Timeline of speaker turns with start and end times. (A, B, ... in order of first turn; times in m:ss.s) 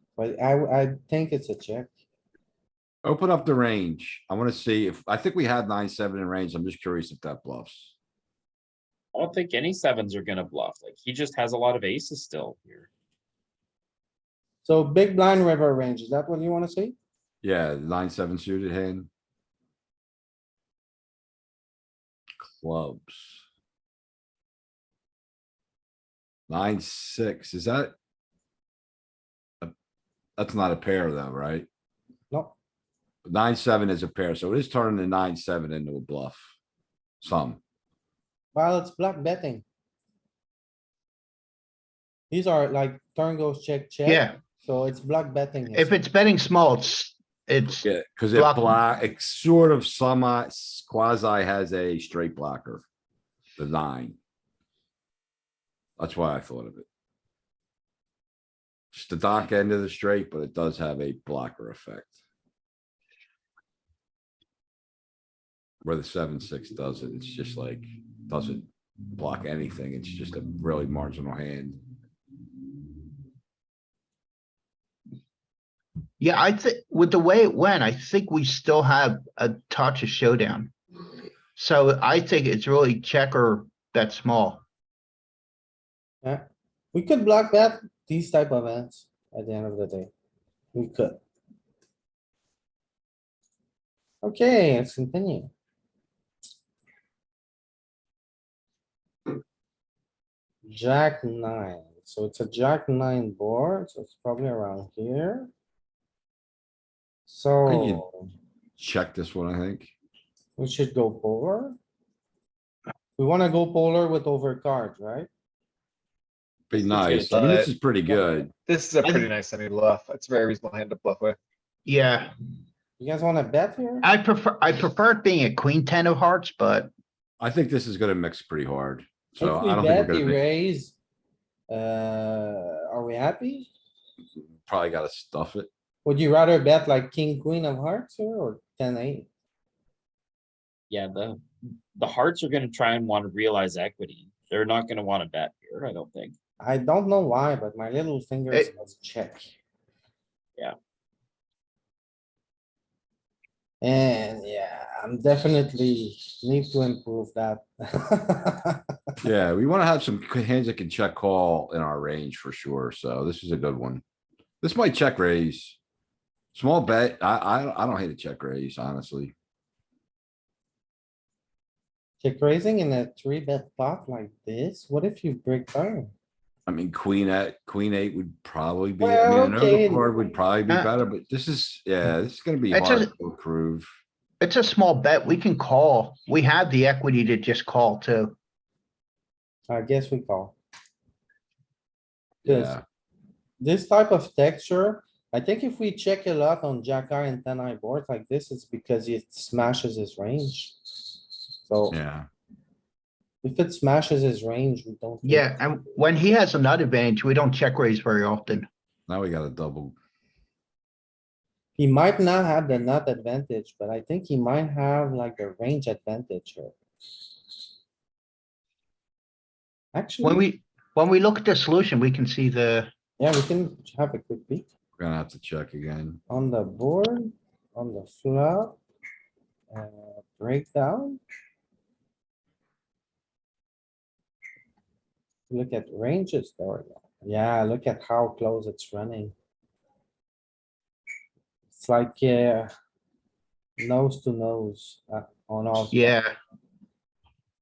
0:00.2-0:01.9 A
0:03.0-0:07.9 B
0:09.1-0:12.9 C
0:14.6-0:17.0 A
0:17.4-0:19.1 B
0:22.4-0:23.4 B
0:26.5-0:27.9 B
0:30.4-0:31.7 B
0:33.2-0:36.4 B
0:37.2-0:37.6 B
0:38.5-0:39.6 A
0:42.3-0:46.0 A
0:44.1-0:44.4 D
0:45.7-0:47.8 D
0:47.8-0:52.8 B
0:48.4-0:48.8 D
0:53.6-0:54.2 B
0:56.0-0:56.9 B
0:58.9-1:02.2 B
1:05.8-1:11.8 B
1:16.2-1:20.7 D
1:21.6-1:24.6 D
1:26.2-1:30.1 A
1:30.7-1:31.2 A
1:34.2-1:35.5 A
1:40.7-1:45.5 A
1:47.3-1:48.3 A
1:47.7-1:48.0 B
1:48.8-1:49.9 B
1:50.6-1:51.8 A
1:53.2-1:55.3 A
1:56.7-1:58.5 B
1:56.7-1:57.7 C
1:58.7-2:01.4 E
2:01.9-2:02.3 D
2:03.0-2:04.1 A
2:04.0-2:06.9 D
2:07.4-2:10.4 B
2:09.4-2:11.0 A
2:11.7-2:13.7 A
2:14.4-2:15.7 B
2:16.0-2:19.3 A
2:20.9-2:21.4 C
2:22.0-2:26.4 C
2:26.6-2:29.5 A
2:33.8-2:38.8 A
2:39.2-2:44.0 B
2:44.6-2:45.8 B
2:46.5-2:49.3 B
2:52.2-2:56.1 A
2:56.7-3:03.9 B
2:59.0-3:00.1 A
3:02.7-3:03.1 D
3:04.4-3:08.4 D
3:09.7-3:10.6 A
3:12.4-3:12.8 B
3:12.5-3:12.8 A
3:13.6-3:20.8 A
3:21.6-3:22.0 A
3:21.9-3:22.3 B
3:23.4-3:25.6 A
3:25.2-3:28.7 D
3:29.1-3:30.0 B
3:31.8-3:36.8 A
3:39.9-3:40.4 A
3:40.2-3:42.9 D
3:43.2-3:44.6 A
3:45.0-3:46.2 B
3:46.3-3:48.8 A
3:49.7-3:51.2 A
3:55.5-3:59.3 A
4:01.7-4:02.7 A
4:03.8-4:06.2 A
4:05.9-4:06.4 D